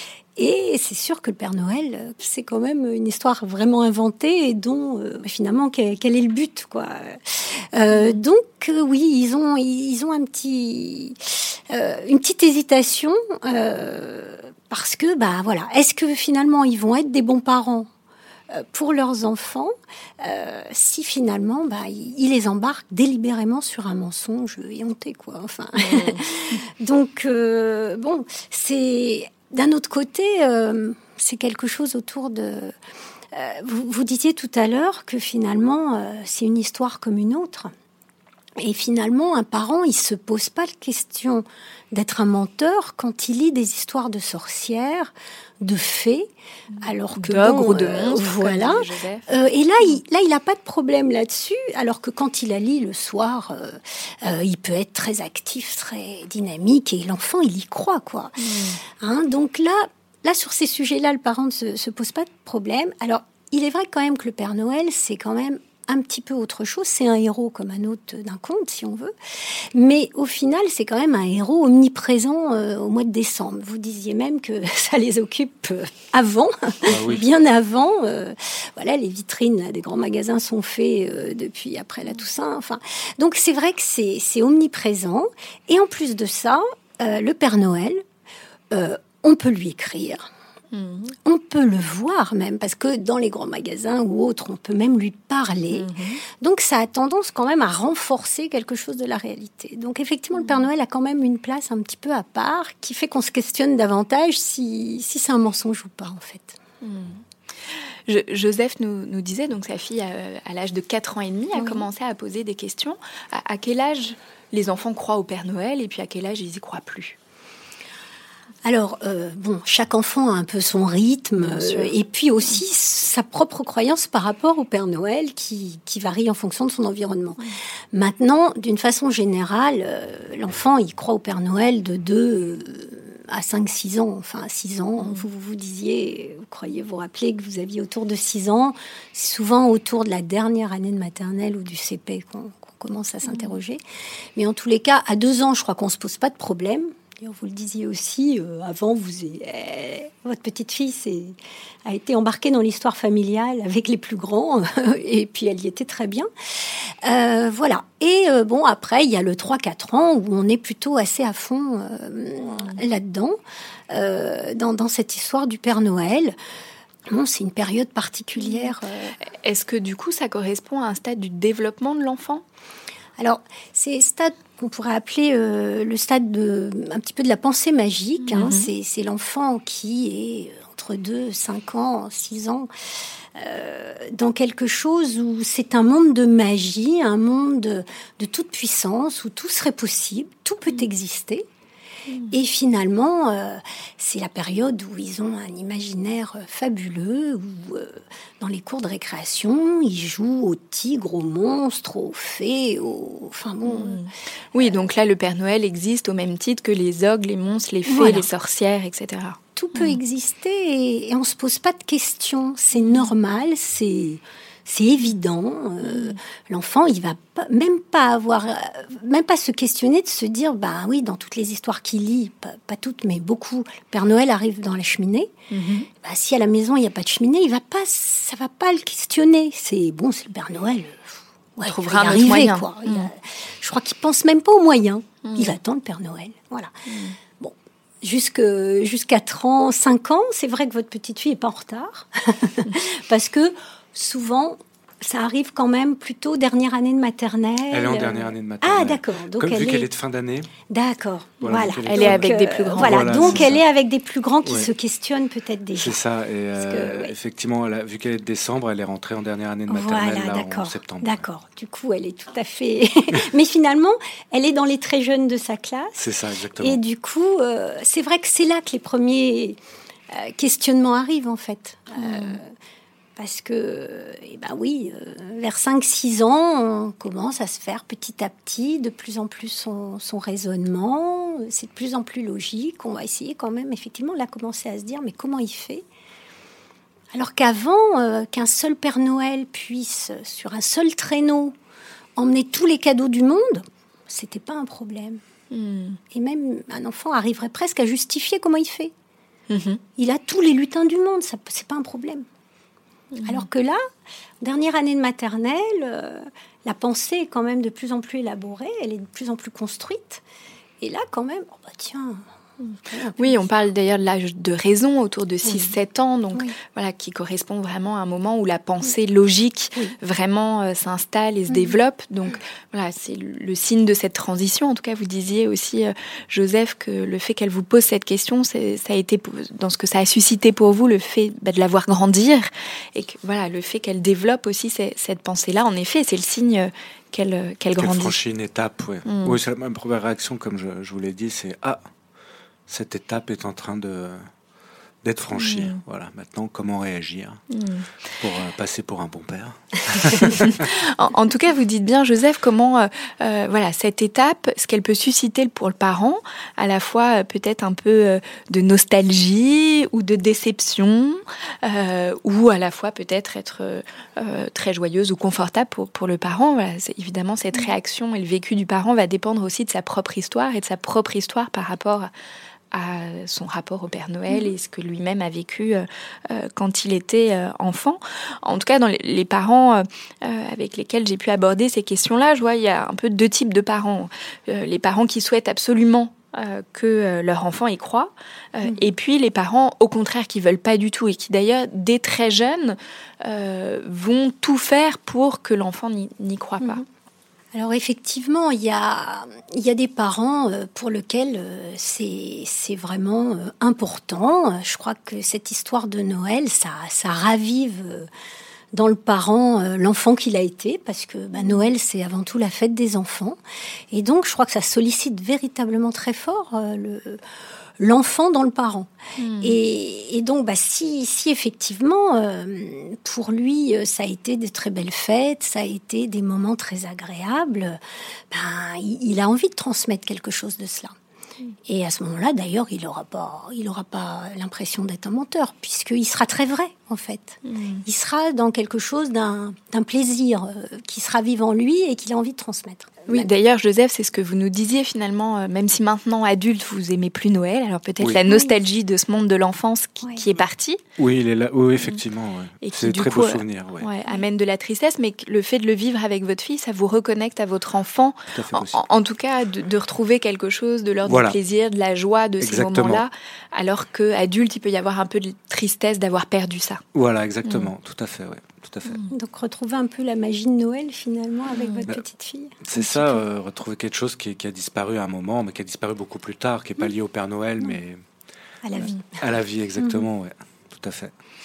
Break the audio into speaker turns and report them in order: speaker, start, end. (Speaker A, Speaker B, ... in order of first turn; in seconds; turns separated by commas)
Speaker A: 0.4-17.9, Speaker B: 7.9-8.2, Speaker A: 18.5-32.7, Speaker B: 25.8-26.2, Speaker A: 33.3-37.7, Speaker A: 38.6-46.3, Speaker B: 46.7-49.3, Speaker A: 46.8-69.1, Speaker B: 58.4-58.8, Speaker A: 69.7-88.0, Speaker C: 76.9-77.2, Speaker A: 88.7-90.2, Speaker B: 90.7-91.1, Speaker A: 91.2-106.6, Speaker B: 95.7-96.2, Speaker B: 100.3-100.7, Speaker B: 106.8-107.2, Speaker B: 108.1-117.2, Speaker A: 111.5-111.8, Speaker A: 118.6-127.4, Speaker B: 121.4-121.9, Speaker A: 127.9-143.8, Speaker B: 143.2-143.6, Speaker A: 144.3-151.3, Speaker A: 151.8-156.3, Speaker A: 157.0-163.4, Speaker A: 163.9-166.3, Speaker A: 167.1-169.1, Speaker B: 168.4-168.7, Speaker B: 169.4-172.4, Speaker A: 173.2-182.7, Speaker B: 178.2-178.7, Speaker A: 183.3-191.4, Speaker B: 192.1-192.3, Speaker A: 192.3-204.0, Speaker B: 203.6-210.0, Speaker A: 207.9-208.2, Speaker A: 209.6-225.3, Speaker B: 212.7-213.1, Speaker B: 215.8-216.2, Speaker B: 225.5-225.9, Speaker A: 226.0-236.7, Speaker B: 231.7-233.1, Speaker B: 235.2-235.6, Speaker B: 236.9-237.2, Speaker A: 237.4-249.9, Speaker C: 247.7-250.5, Speaker A: 250.7-256.0, Speaker C: 251.4-253.6, Speaker B: 251.5-253.5, Speaker C: 254.4-254.7, Speaker C: 255.7-261.2, Speaker A: 256.6-257.1, Speaker A: 259.7-266.0, Speaker C: 265.9-266.8, Speaker A: 266.6-269.6, Speaker A: 270.1-272.5, Speaker B: 272.0-272.4, Speaker A: 273.2-285.8, Speaker A: 287.1-291.5, Speaker A: 292.2-295.2, Speaker B: 295.5-296.0, Speaker A: 296.1-298.9, Speaker B: 299.5-299.8, Speaker A: 300.0-302.2, Speaker B: 303.1-303.5, Speaker A: 303.2-303.8, Speaker A: 304.4-310.2, Speaker A: 310.8-312.2, Speaker B: 312.6-338.1, Speaker A: 312.9-313.4, Speaker A: 315.4-315.7, Speaker C: 337.7-341.8, Speaker B: 339.1-339.4, Speaker C: 342.7-344.3, Speaker C: 345.0-347.4, Speaker B: 345.3-345.8, Speaker B: 347.5-347.9, Speaker C: 348.2-350.7, Speaker B: 350.3-372.1, Speaker B: 372.7-396.8, Speaker A: 397.5-408.1, Speaker A: 408.7-413.4, Speaker B: 411.4-411.6, Speaker A: 413.9-417.2, Speaker A: 417.8-418.9, Speaker B: 419.2-419.6, Speaker A: 419.4-427.8, Speaker A: 428.3-430.9, Speaker A: 431.7-443.3, Speaker B: 437.4-437.8, Speaker B: 443.1-450.8, Speaker C: 451.0-453.9, Speaker B: 452.6-466.8, Speaker C: 458.3-458.8, Speaker C: 461.0-461.4, Speaker C: 462.4-463.0, Speaker C: 466.9-469.0, Speaker B: 467.4-467.7, Speaker B: 468.9-469.1, Speaker A: 469.1-473.2, Speaker B: 471.5-471.8, Speaker C: 472.6-478.0, Speaker A: 478.6-479.0, Speaker C: 478.7-481.1